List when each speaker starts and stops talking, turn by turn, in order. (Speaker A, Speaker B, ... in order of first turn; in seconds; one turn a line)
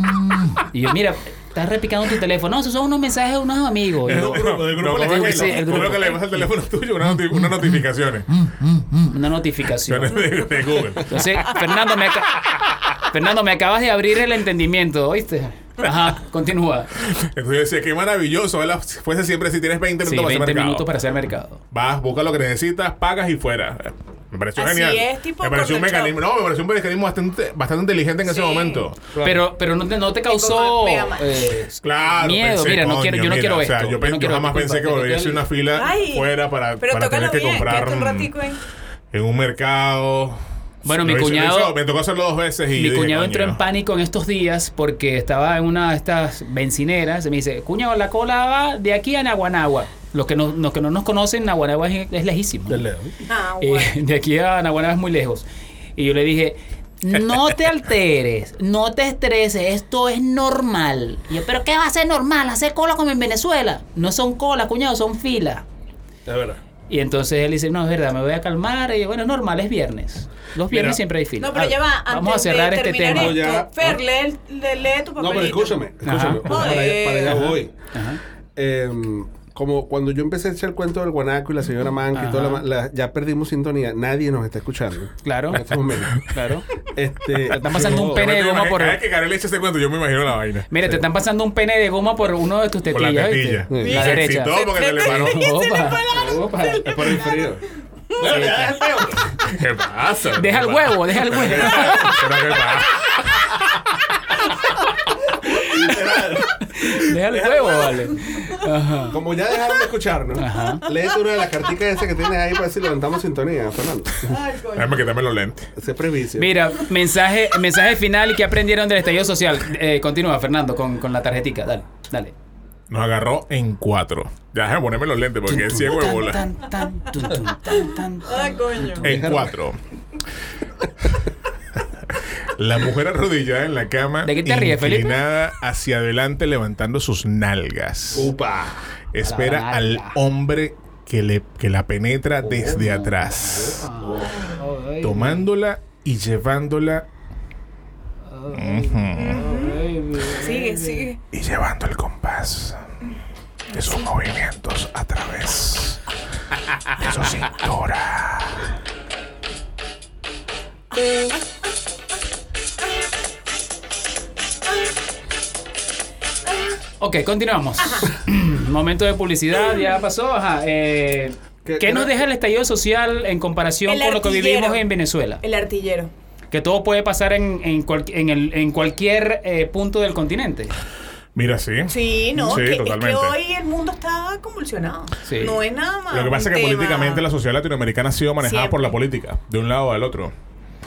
Speaker A: 0.6-6.5
Speaker B: 4.0-6.2
Speaker C: 4.0-8.3
Speaker A: 8.6-10.2
Speaker C: 9.9-11.6
Speaker A: 11.1-16.9
Speaker C: 15.8-16.1
Speaker C: 17.0-20.9
Speaker A: 20.0-21.6
Speaker C: 21.7-29.1
Speaker D: 24.6-26.2
Speaker D: 28.2-28.9
Speaker B: 29.1-29.4
Speaker A: 29.2-35.4
Speaker D: 30.3-31.4
Speaker C: 31.8-38.3
Speaker D: 35.7-38.6
Speaker C: 39.1-43.6
Speaker A: 40.8-41.8
Speaker A: 42.7-52.9
Speaker B: 52.7-53.1
Speaker D: 53.2-54.0
Speaker A: 53.6-65.6
Speaker B: 66.2-66.6
Speaker A: 66.9-73.4
Speaker B: 70.7-71.0
Speaker D: 71.4-75.8
Speaker B: 73.1-74.0
Speaker B: 75.2-77.7
Speaker A: 76.0-76.6
Speaker D: 76.4-77.5
Speaker A: 77.2-78.2
Speaker B: 78.5-86.2
Speaker A: 82.1-82.7
Speaker A: 85.2-86.7
Speaker B: 86.9-88.3
Speaker A: 87.3-89.0
Speaker C: 87.7-90.7
Speaker A: 90.7-97.0
Speaker C: 92.9-95.5
Speaker B: 93.7-94.1
Speaker D: 93.8-97.6
Speaker B: 96.8-99.4
Speaker A: 98.2-99.0
Speaker C: 99.4-103.5
Speaker A: 100.3-102.2
Speaker B: 101.3-102.2
Speaker B: 105.4-108.2
Speaker C: 105.8-106.2
Speaker A: 106.7-109.2
Speaker B: 109.1-114.4
Speaker A: 110.4-110.8
Speaker D: 114.2-115.0
Speaker C: 114.7-115.7
Speaker B: 115.8-116.6
Speaker A: 116.4-122.3
Speaker C: 122.9-126.4
Speaker A: 125.5-129.0
Speaker D: 128.2-129.1
Speaker B: 129.0-129.5
Speaker C: 129.0-129.8
Speaker C: 132.2-138.3
Speaker A: 134.2-135.2
Speaker B: 138.1-138.8
Speaker C: 139.1-143.9
Speaker A: 139.2-140.2
Speaker A: 142.4-145.4
Speaker C: 145.0-147.1
Speaker A: 148.3-151.1
Speaker C: 148.5-149.5
Speaker D: 149.1-151.2
Speaker C: 151.3-152.8
Speaker C: 153.7-156.0
Speaker C: 156.9-158.7
Speaker A: 167.0-175.4
Speaker D: 167.8-168.1
Speaker B: 171.6-172.2
Speaker D: 173.9-174.8
Speaker D: 175.4-176.1
Speaker A: 176.5-180.7
Speaker C: 181.3-183.3
Speaker D: 181.9-187.2
Speaker A: 185.2-185.6
Speaker C: 186.1-190.3
Speaker D: 188.4-189.0